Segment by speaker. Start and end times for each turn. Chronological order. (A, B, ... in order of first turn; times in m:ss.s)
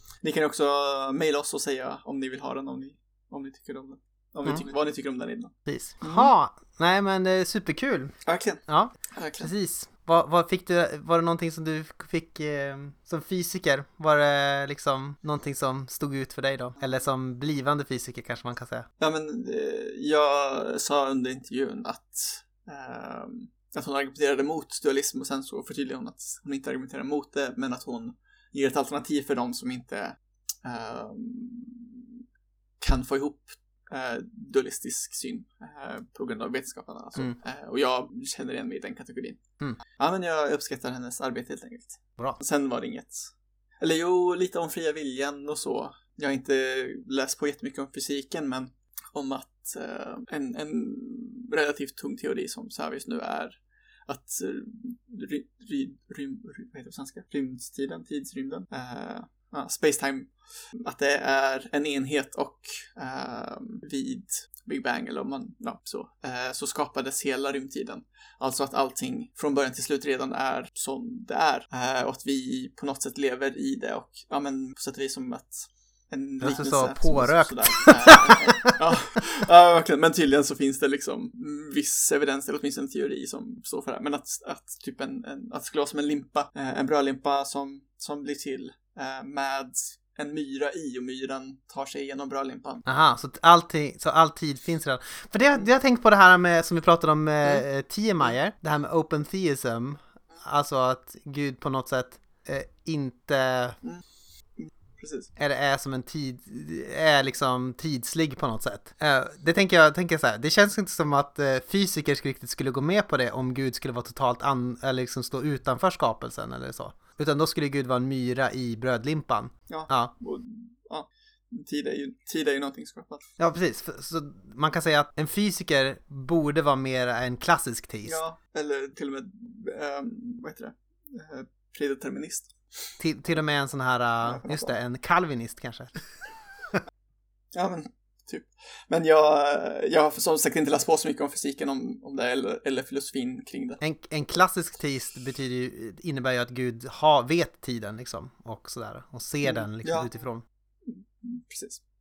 0:00.2-0:06.3 A
0:05.7-0:18.9 B
0:08.3-0:09.5 A
0:19.0-0:32.2 A
0:32.8-0:39.4 A
0:40.0-1:32.8 A
1:16.4-1:18.8 B
1:32.9-1:43.8 B
1:44.6-1:45.3 A
1:45.4-2:00.1 B
1:59.7-2:03.2 A
2:03.4-2:08.2 B
2:08.0-2:12.9 A
2:13.0-2:16.0 B
2:14.2-2:14.7 A
2:17.5-2:23.8 A
2:23.8-2:30.4 B
2:29.4-2:30.1 A
2:30.8-2:31.8 A